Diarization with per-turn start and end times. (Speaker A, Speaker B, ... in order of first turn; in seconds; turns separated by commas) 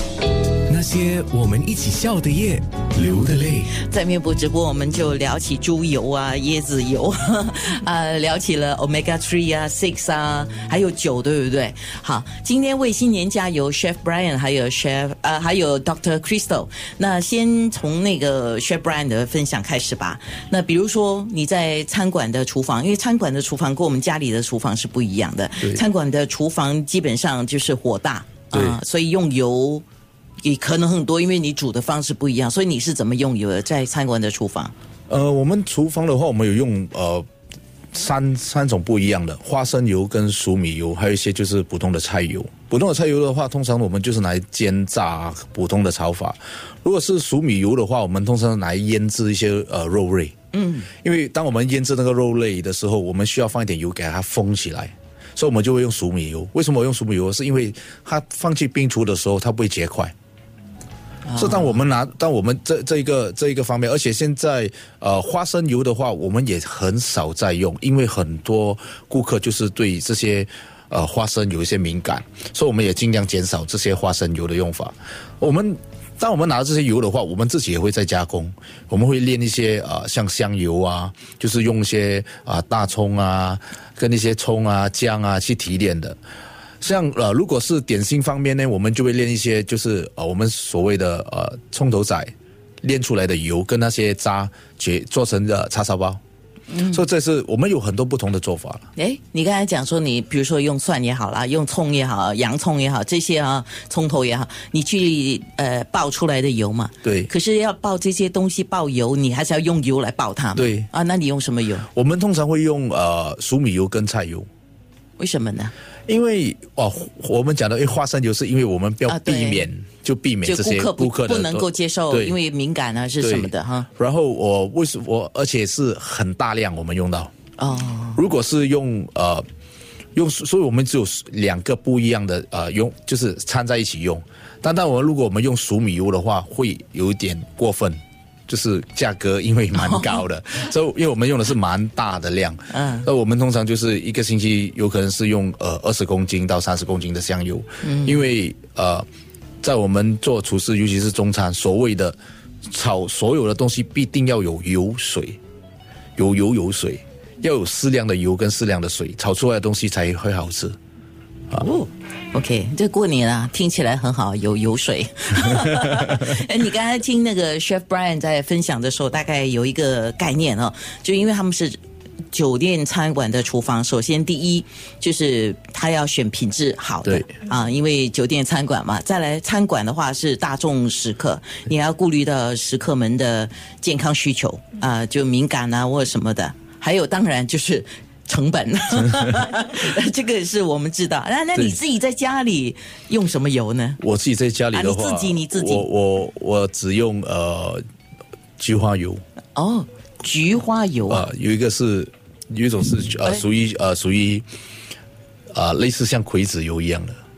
Speaker A: 0.7-3.7, Speaker B: 3.7-29.8, Speaker C: 28.5-28.8, Speaker B: 30.4-34.7, Speaker C: 35.1-37.3, Speaker C: 37.9-50.3, Speaker B: 50.5-50.9, Speaker C: 50.9-60.1, Speaker B: 61.3-61.8, Speaker C: 61.4-86.2, Speaker C: 86.8-92.3, Speaker C: 92.8-96.2, Speaker B: 96.7-97.0, Speaker C: 96.9-98.9, Speaker B: 99.0-111.9, Speaker C: 107.0-107.3, Speaker C: 110.6-110.9, Speaker C: 111.9-114.5, Speaker B: 115.2-115.7, Speaker C: 116.1-122.3, Speaker B: 119.1-119.7, Speaker B: 120.4-123.9, Speaker C: 123.2-127.3, Speaker B: 127.6-128.2, Speaker C: 128.2-129.4, Speaker C: 130.2-149.1, Speaker B: 139.8-140.2, Speaker B: 142.7-143.1, Speaker B: 147.8-148.2, Speaker C: 149.6-152.2, Speaker C: 152.7-155.4, Speaker C: 156.2-160.8, Speaker B: 161.6-171.8, Speaker B: 172.3-194.0, Speaker C: 194.0-197.8, Speaker B: 194.7-195.9, Speaker C: 198.6-199.2, Speaker B: 199.6-201.3, Speaker C: 201.1-204.4, Speaker C: 205.5-207.2